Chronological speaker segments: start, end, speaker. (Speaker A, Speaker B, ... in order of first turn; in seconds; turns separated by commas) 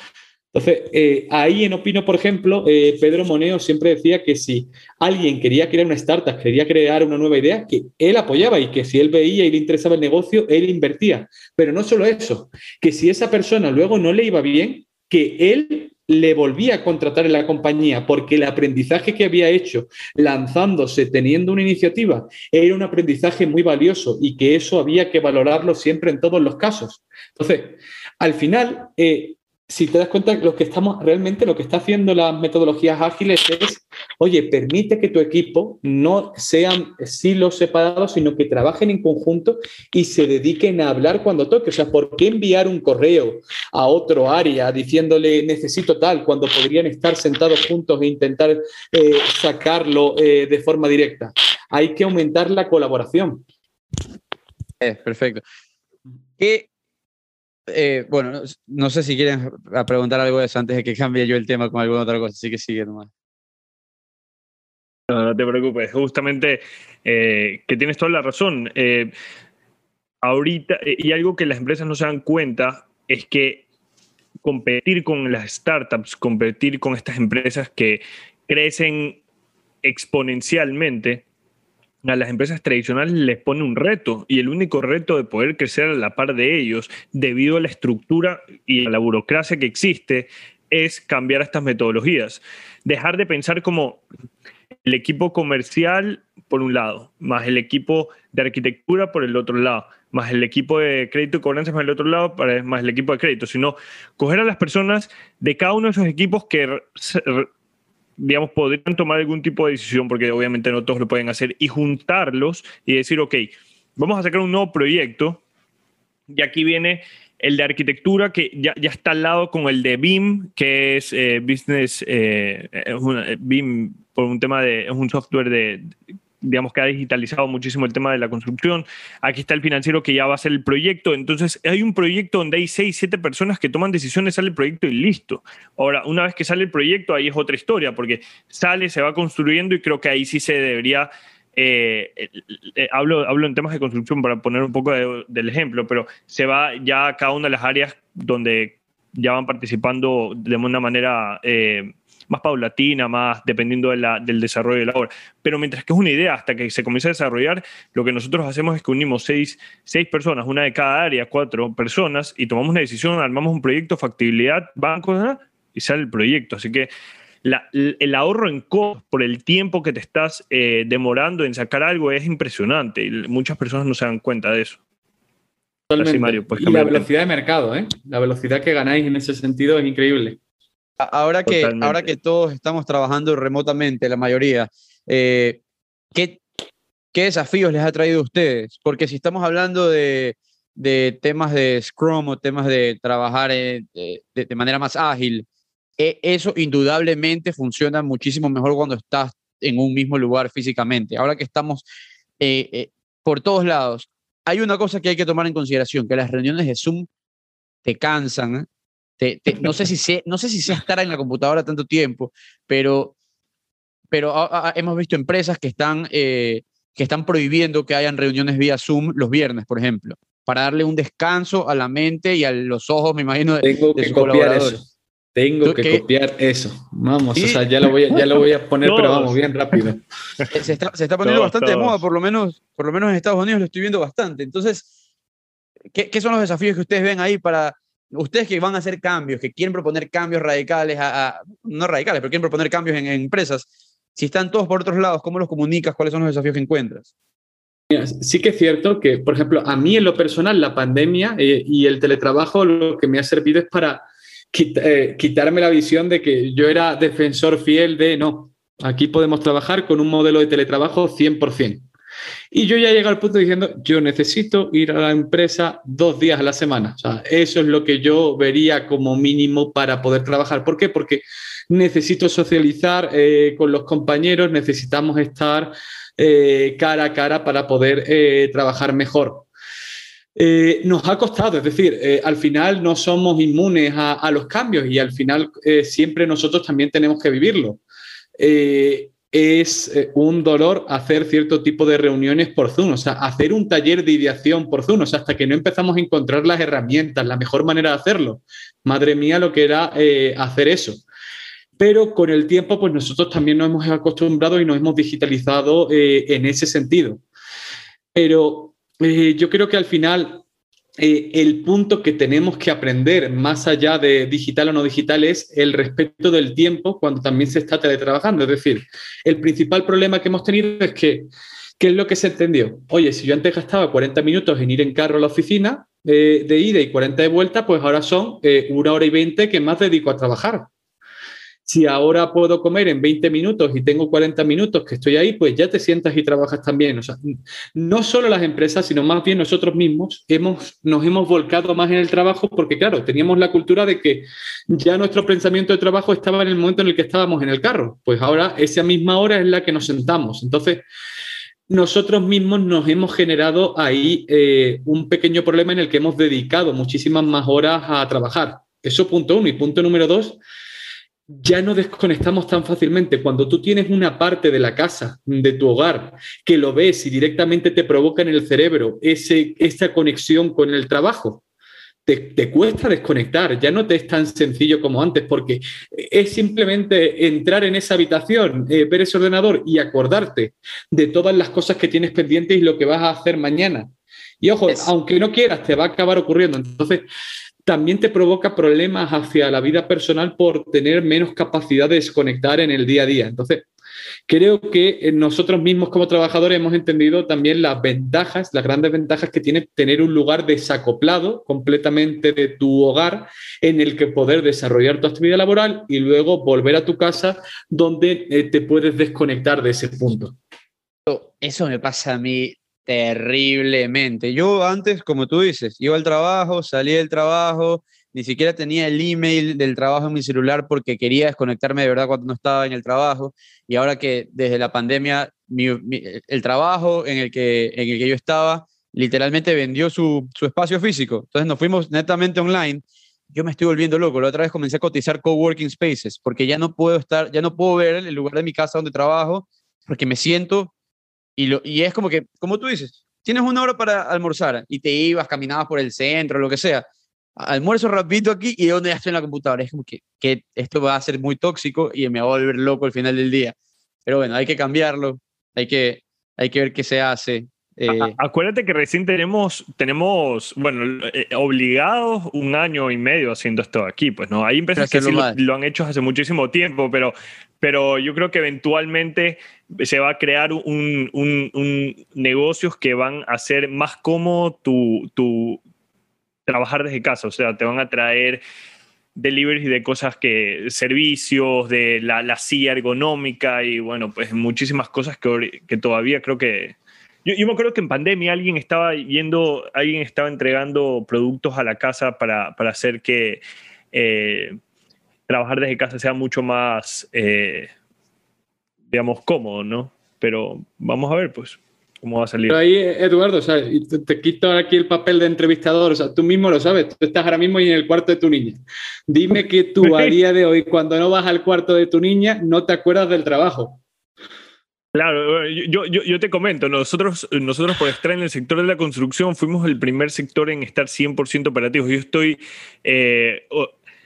Speaker A: 0.5-53.5, Speaker B: 54.8-55.4, Speaker B: 56.4-56.7, Speaker B: 57.7-63.1, Speaker C: 65.1-69.1, Speaker C: 70.2-73.7, Speaker C: 74.4-79.2, Speaker C: 79.8-81.2, Speaker C: 82.0-94.0, Speaker C: 94.8-107.5, Speaker C: 108.2-115.4, Speaker C: 116.3-125.9, Speaker C: 126.4-166.9, Speaker C: 167.4-174.8, Speaker A: 175.9-180.4, Speaker C: 176.0-177.1, Speaker B: 181.0-185.6, Speaker C: 181.5-182.1, Speaker B: 186.1-186.4, Speaker B: 187.1-195.4, Speaker B: 196.0-201.8, Speaker B: 202.4-207.1, Speaker B: 207.8-208.7, Speaker B: 209.2-213.1, Speaker B: 214.1-224.8, Speaker A: 223.6-230.0, Speaker B: 225.6-226.0, Speaker B: 227.3-227.6, Speaker C: 228.8-229.3, Speaker B: 230.5-234.9, Speaker C: 231.2-232.0, Speaker B: 235.9-247.1, Speaker A: 247.9-261.9, Speaker A: 262.5-279.5, Speaker A: 280.4-287.8, Speaker A: 288.4-301.0, Speaker A: 301.8-307.2, Speaker A: 308.1-310.4, Speaker A: 311.0-330.7, Speaker A: 331.6-337.2, Speaker A: 337.8-350.9, Speaker A: 351.7-360.4, Speaker A: 361.3-371.4, Speaker A: 372.1-383.9, Speaker A: 384.4-387.1, Speaker A: 387.7-393.7, Speaker A: 394.3-410.4, Speaker B: 411.1-440.7, Speaker B: 441.4-453.6, Speaker B: 454.1-458.1, Speaker C: 457.9-475.6, Speaker B: 464.8-465.4, Speaker C: 476.5-478.4, Speaker C: 479.2-493.4, Speaker C: 493.9-494.6, Speaker C: 495.3-497.7, Speaker C: 498.9-502.6, Speaker A: 502.5-513.8, Speaker C: 509.8-510.1, Speaker C: 514.9-523.7